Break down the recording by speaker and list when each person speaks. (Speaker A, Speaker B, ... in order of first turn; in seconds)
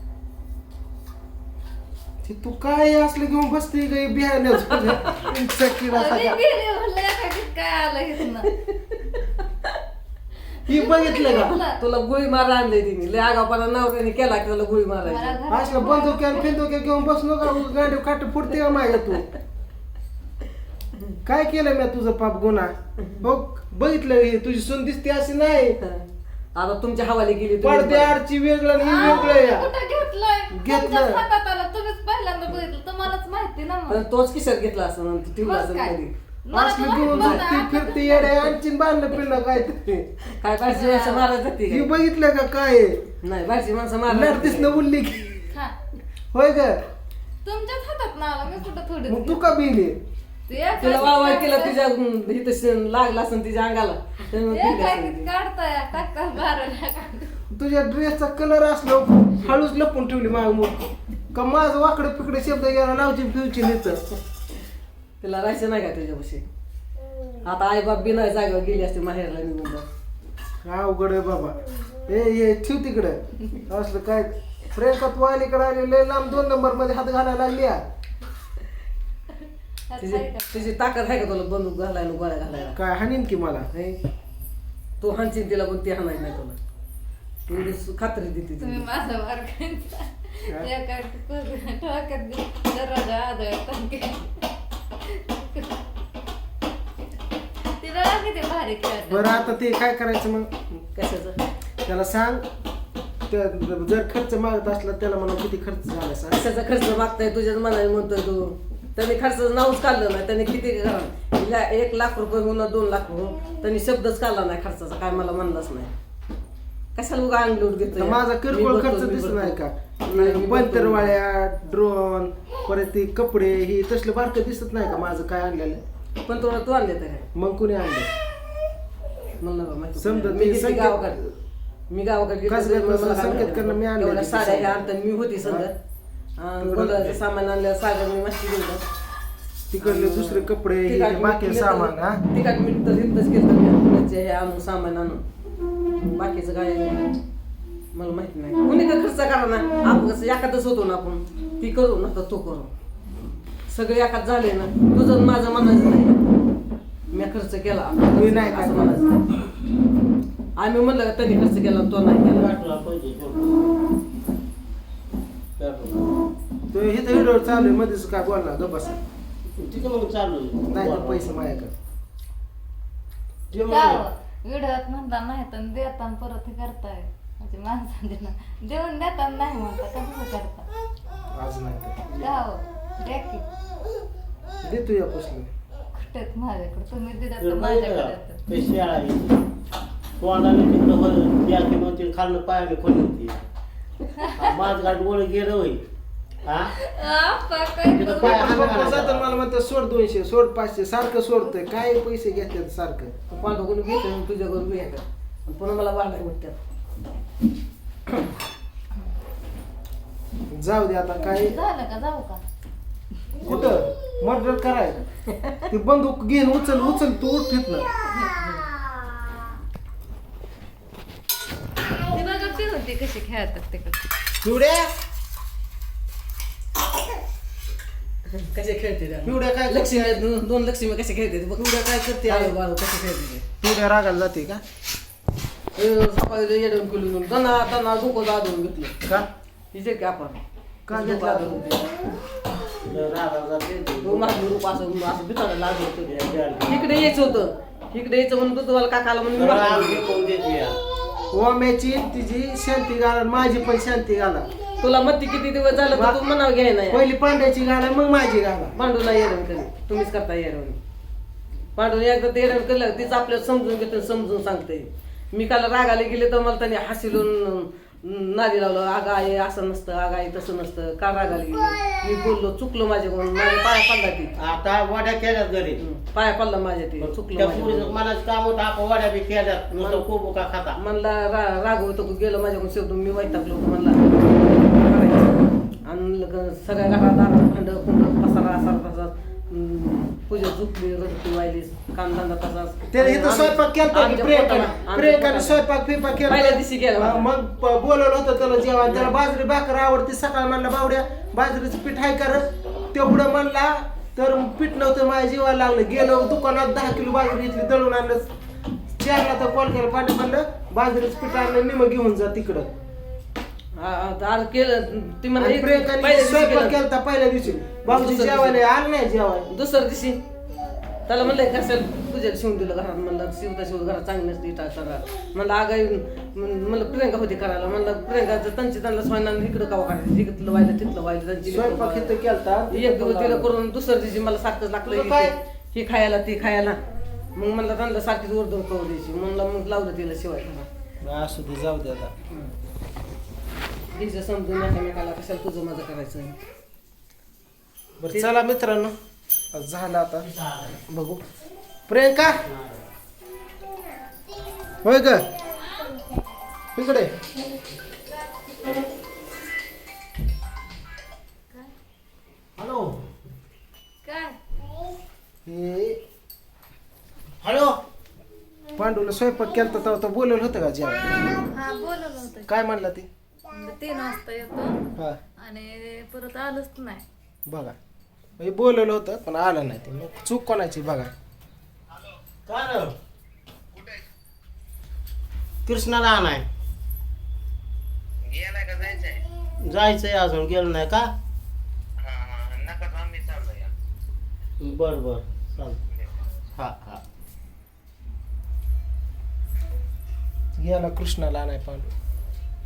Speaker A: 2.2-6.4, 10.7-11.6, 15.5-19.3, 21.2-25.8, 27.6-29.7, 30.5-31.2, 36.5-40.1, 41.7-43.0, 44.1-45.5, 46.3-46.8, 49.1-50.0, 57.5-64.0, 70.6-77.8, 82.8-83.7, 99.1-100.8, 101.9-102.5, 103.3-106.5, 117.9-125.8, 127.3-128.1, 130.0-131.3, 132.5-134.8, 135.4-135.7, 136.6-137.2, 139.7-142.2, 158.1-159.0, 166.7-169.0, 170.7-171.7, 181.3-182.0, 184.6-185.5, 198.2-203.1, 210.5-211.6, 213.4-215.0, 215.7-217.9, 224.4-224.9, 229.2-230.2, 231.6-232.6, 233.6-234.6, 240.9-241.7, 251.3-254.5, 255.9-256.2, 256.9-258.7, 292.9-308.3, 309.0-312.7, 315.4-319.5, 331.5-333.5, 334.9-335.4, 341.0-342.1, 348.0-348.9, 349.5-350.3, 350.9-351.2, 351.9-352.4, 354.8-355.2, 356.8-357.1, 365.5-366.0, 368.8-371.1, 372.5-373.1, 377.5-377.8, 378.4-381.1, 400.6-401.9
Speaker B: 4.8-5.2, 8.7-9.8, 11.3-15.4, 25.8-28.2, 29.0-29.3, 33.9-36.1, 37.0-37.5, 40.3-42.0, 43.2-44.9, 50.8-55.3, 65.2-66.5, 67.4-69.9, 80.0-82.8, 83.7-84.0, 85.0-86.6, 87.5-88.9, 101.0-101.4, 106.3-115.9, 117.0-121.2, 126.2-127.3, 129.4-131.2, 131.9-135.7, 136.4-138.8, 139.8-145.2, 146.0-147.1, 147.9-152.7, 153.7-156.2, 157.1-159.2, 160.6-162.5, 203.3-206.6, 228.3-233.4, 235.8-238.9, 239.7-242.0, 244.0-250.0, 254.8-257.1, 258.7-260.8, 261.8-274.3, 275.8-277.9, 279.8-280.1, 280.8-295.6, 296.2-297.3, 298.8-299.1, 313.8-316.8, 317.8-318.6, 319.5-320.2, 321.1-332.1, 332.7-336.8, 337.4-340.7, 343.9-346.4, 348.1-348.4
Speaker C: 5.9-8.5, 10.6-11.8, 15.0-16.6, 28.8-34.0, 35.4-38.4, 40.7-41.3, 45.5-45.8, 47.4-49.5, 50.5-51.8, 54.5-57.4, 79.9-80.7, 88.6-94.5, 95.0-95.8, 97.7-99.5, 173.6-180.7, 182.2-183.5, 185.9-188.4, 194.1-194.5, 196.8-199.1, 211.3-212.4, 218.2-218.6, 222.1-224.1, 364.1-364.4, 371.4-372.5, 373.5-377.0
Speaker D: 162.3-163.6, 165.6-166.1, 169.6-171.4, 173.5-174.1, 187.4-189.4, 190.2-193.4, 194.3-195.8, 196.4-196.7, 197.8-199.4, 213.5-213.8, 242.9-244.5, 246.0-246.9, 249.3-250.8, 274.4-275.8, 277.0-280.8, 350.2-350.8, 352.4-352.8, 362.6-363.0, 367.4-367.8, 382.5-382.9, 385.7-386.5, 388.4-391.1, 393.0-393.3, 394.6-395.8, 396.6-397.0
Speaker E: 388.3-389.2, 392.1-393.7